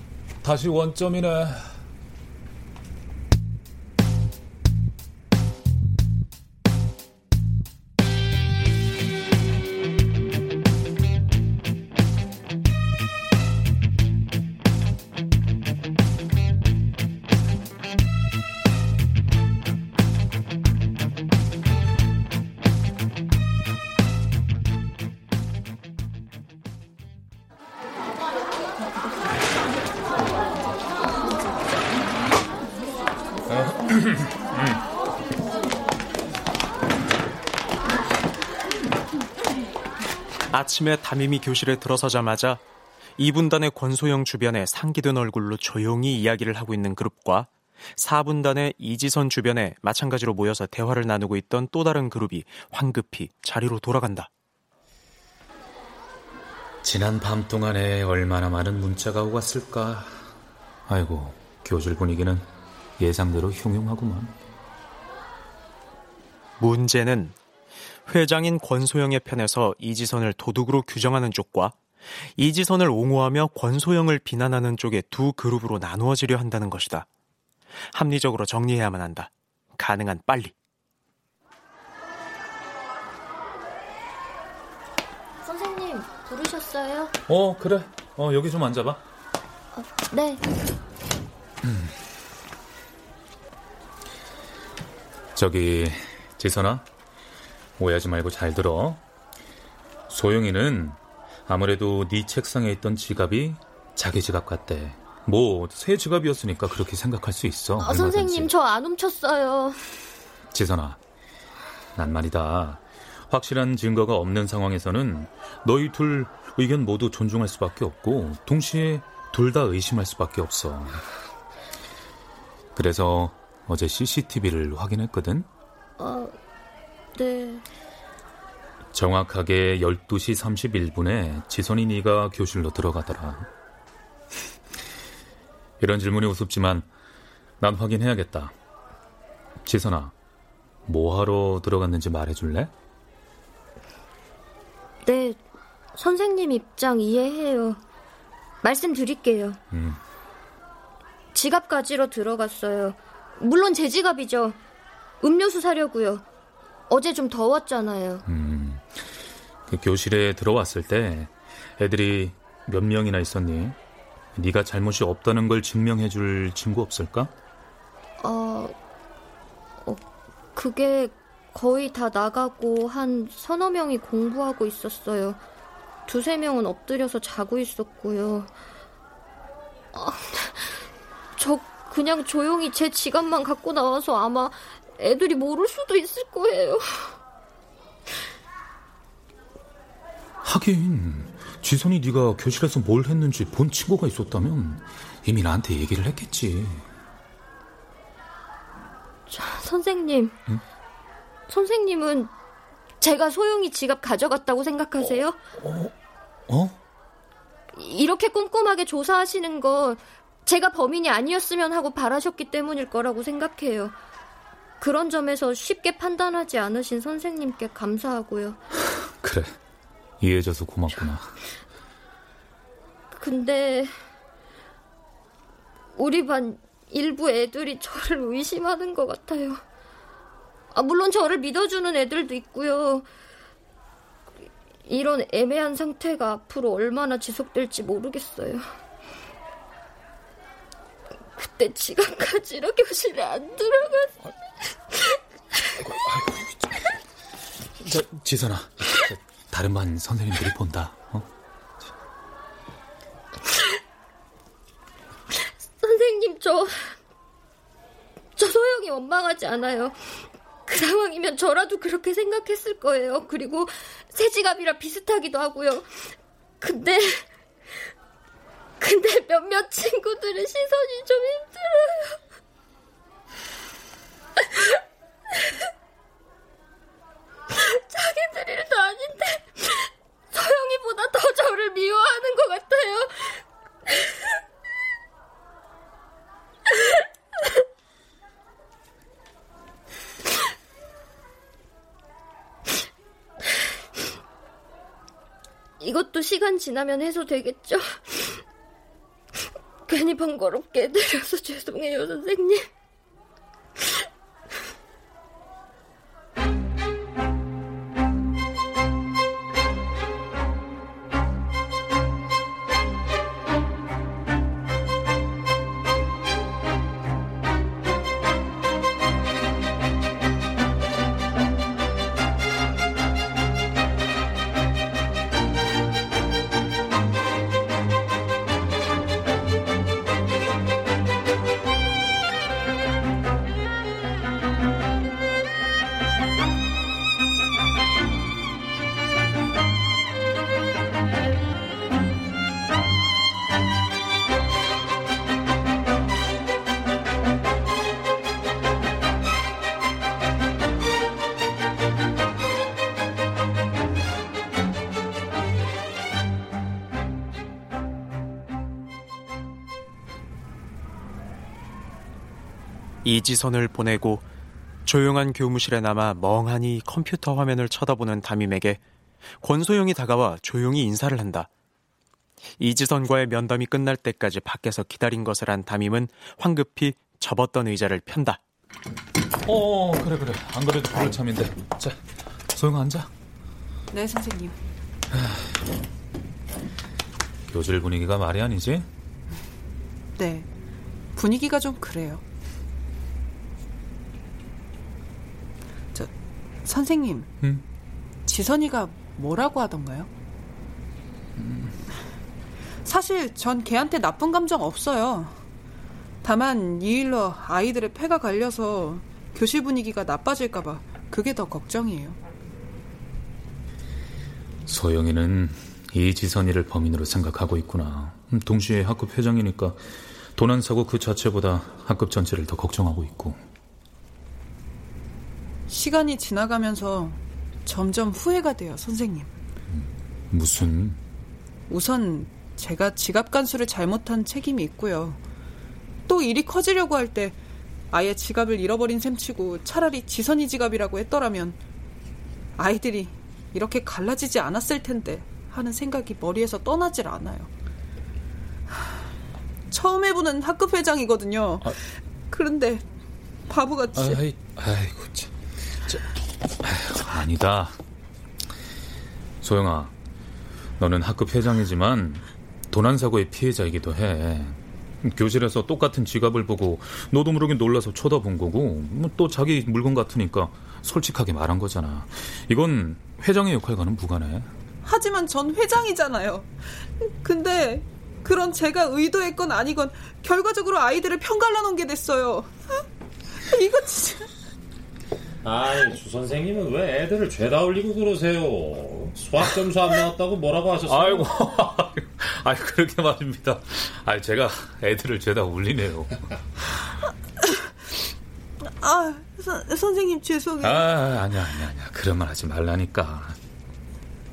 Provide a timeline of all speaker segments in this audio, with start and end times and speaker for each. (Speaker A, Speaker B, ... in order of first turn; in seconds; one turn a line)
Speaker A: 0.4-1.7
Speaker A: 33.5-34.8
Speaker B: 40.5-42.6
Speaker B: 43.2-54.3
Speaker A: 56.8-60.2
Speaker A: 60.9-64.4
Speaker B: 66.6-67.3
Speaker B: 68.1-71.8
Speaker B: 72.4-77.1
Speaker B: 77.9-80.5
Speaker C: 85.4-87.1
Speaker A: 87.3-89.0
Speaker C: 89.7-90.4
Speaker A: 91.6-91.9
Speaker A: 95.3-96.8
Speaker A: 97.8-99.0
Speaker A: 100.1-108.5
Speaker C: 107.8-109.8
Speaker A: 110.5-111.0
Speaker A: 112.0-121.0
Speaker A: 122.8-125.5
Speaker C: 126.0-126.3
Speaker C: 127.2-127.7
Speaker A: 128.9-133.5
Speaker A: 135.8-136.9
Speaker A: 137.6-138.5
Speaker A: 139.6-140.1
Speaker A: 140.9-142.7
Speaker C: 145.1-145.4
Speaker C: 146.0-147.8
Speaker C: 148.6-149.6
Speaker A: 149.7-150.0
Speaker C: 151.3-154.6
Speaker C: 155.2-156.2
Speaker C: 156.9-158.2
Speaker A: 158.3-159.0
Speaker A: 159.7-163.8
Speaker A: 164.3-167.3
Speaker C: 168.2-168.8
Speaker C: 170.6-175.4
Speaker C: 176.1-178.5
Speaker C: 179.9-180.9
Speaker C: 181.4-187.2
Speaker A: 190.4-196.9
Speaker C: 199.3-200.4
Speaker C: 201.5-202.3
Speaker C: 203.0-205.4
Speaker A: 205.6-205.9
Speaker A: 206.5-206.8
Speaker C: 207.7-213.9
Speaker C: 214.8-218.6
Speaker A: 219.2-219.6
Speaker A: 220.2-221.3
Speaker C: 223.1-223.9
Speaker C: 226.0-229.6
Speaker C: 230.7-233.1
Speaker C: 234.9-238.7
Speaker C: 241.4-244.2
Speaker C: 244.9-245.2
Speaker A: 245.8-246.9
Speaker A: 247.8-251.3
Speaker C: 255.4-257.0
Speaker C: 258.4-267.3
Speaker C: 268.8-272.2
Speaker C: 274.4-274.8
Speaker C: 277.5-284.2
Speaker C: 286.7-287.0
Speaker C: 295.8-298.4
Speaker C: 299.9-302.7
Speaker B: 363.0-364.2
Speaker B: 364.9-368.8
Speaker B: 369.4-371.5
Speaker B: 372.6-378.4
Speaker A: 379.4-382.0
Speaker A: 382.5-383.1
Speaker D: 383.9-384.6
Speaker A: 385.1-385.4
Speaker A: 387.5-388.9
Speaker D: 390.2-390.5
Speaker D: 391.1-392.2
Speaker D: 396.6-397.3
Speaker D: 398.3-400.1
Speaker A: 401.4-401.7
Speaker D: 402.9-405.4
Speaker D: 406.2-412.2
Speaker A: 414.7-423.4
Speaker D: 425.7-429.3
Speaker A: 429.7-431.0
Speaker D: 431.7-435.2
Speaker D: 436.1-437.4
Speaker D: 437.9-441.6
Speaker D: 442.6-447.5
Speaker D: 449.7-451.8
Speaker D: 452.3-452.9
Speaker D: 453.5-454.2
Speaker A: 454.0-455.3
Speaker A: 456.6-457.8
Speaker A: 459.4-459.9
Speaker A: 460.8-474.5
Speaker D: 474.8-482.5
Speaker D: 483.5-484.3
Speaker E: 485.4-491.3
Speaker A: 490.9-496.2
Speaker D: 498.6-500.9
Speaker A: 500.6-503.4